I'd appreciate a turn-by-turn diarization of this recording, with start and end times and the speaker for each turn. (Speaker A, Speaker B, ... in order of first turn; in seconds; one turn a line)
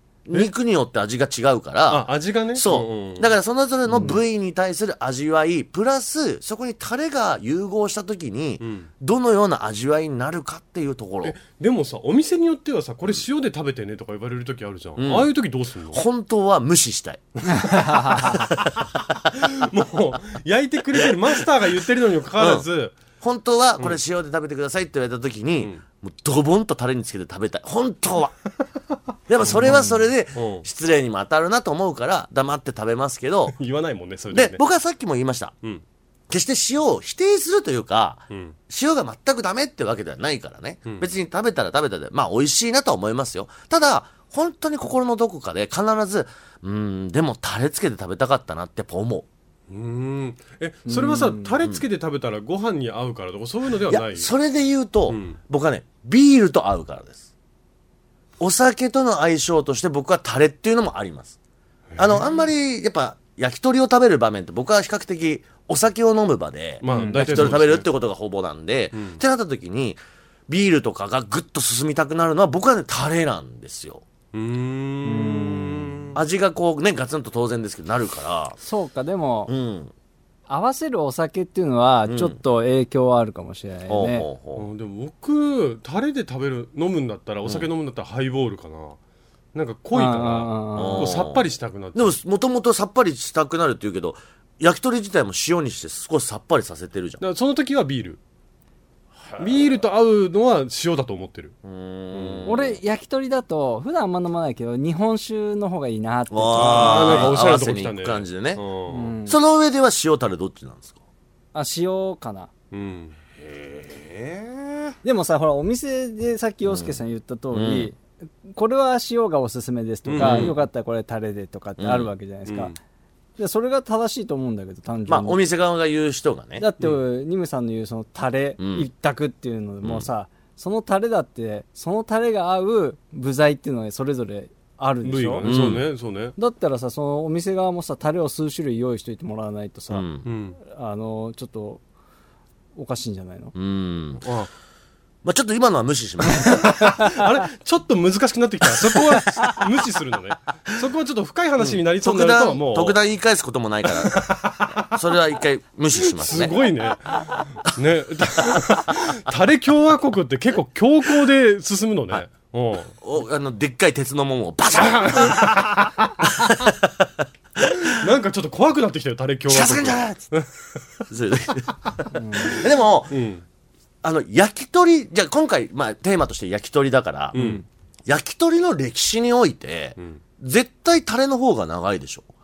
Speaker A: 0.3-11.4
Speaker B: 1.9-3.4
Speaker C: 3.9-4.2
Speaker B: 8.6-8.9
Speaker B: 11.2-16.0
Speaker A: 15.0-15.3
Speaker A: 15.9-18.8
Speaker B: 17.7-18.3
Speaker C: 17.9-18.3
Speaker B: 19.4-23.0
Speaker A: 20.9-21.4
Speaker A: 22.4-22.7
Speaker A: 23.2-28.4
Speaker A: 29.3-33.6
Speaker B: 29.5-29.8
Speaker C: 29.7-30.0
Speaker B: 30.4-30.6
Speaker B: 33.5-34.6
Speaker A: 34.3-35.6
Speaker A: 36.3-49.3
Speaker B: 38.3-38.6
Speaker B: 49.7-54.3
Speaker C: 50.9-51.6
Speaker A: 53.9-57.3
Speaker B: 55.1-55.4
Speaker A: 58.4-61.4
Speaker B: 62.0-62.3
Speaker A: 62.0-74.0
Speaker B: 66.8-67.9
Speaker C: 66.9-67.3
Speaker B: 68.9-69.2
Speaker B: 74.3-76.2
Speaker C: 75.0-76.0
Speaker A: 76.2-78.6
Speaker C: 78.6-79.5
Speaker A: 79.5-79.9
Speaker C: 80.5-84.3
Speaker A: 82.1-82.4
Speaker A: 83.9-84.7
Speaker B: 84.6-89.0
Speaker B: 89.5-92.2
Speaker C: 89.9-91.1
Speaker A: 90.8-97.2
Speaker B: 97.2-98.2
Speaker B: 99.4-101.5
Speaker A: 101.6-102.8
Speaker B: 102.1-102.5
Speaker C: 102.5-107.4
Speaker A: 106.3-108.6
Speaker B: 106.5-109.1
Speaker C: 108.9-109.4
Speaker A: 109.3-111.0
Speaker C: 111.5-112.5
Speaker B: 112.7-113.2
Speaker A: 113.4-114.9
Speaker C: 115.0-122.8
Speaker A: 116.7-117.0
Speaker A: 117.5-117.9
Speaker B: 120.1-120.5
Speaker A: 120.2-120.5
Speaker A: 121.8-122.1
Speaker B: 122.5-122.8
Speaker C: 123.4-125.4
Speaker A: 125.1-126.7
Speaker C: 126.6-135.5
Speaker A: 128.6-128.9
Speaker A: 129.8-130.1
Speaker B: 135.0-136.3
Speaker A: 135.4-135.8
Speaker C: 136.4-140.1
Speaker A: 139.9-140.3
Speaker B: 140.2-140.6
Speaker C: 140.6-141.8
Speaker C: 142.8-143.5
Speaker A: 143.6-144.3
Speaker B: 144.2-144.5
Speaker A: 145.2-146.7
Speaker C: 146.3-147.2
Speaker B: 146.7-153.0
Speaker A: 151.6-154.3
Speaker B: 154.0-154.9
Speaker A: 154.8-156.6
Speaker B: 156.0-162.9
Speaker A: 163.0-168.0
Speaker B: 164.8-165.8
Speaker B: 167.7-170.5
Speaker A: 169.5-170.3
Speaker A: 171.1-173.2
Speaker C: 172.1-172.6
Speaker B: 173.1-173.4
Speaker A: 174.0-177.4
Speaker B: 177.3-177.6
Speaker C: 177.3-177.7
Speaker A: 178.1-182.3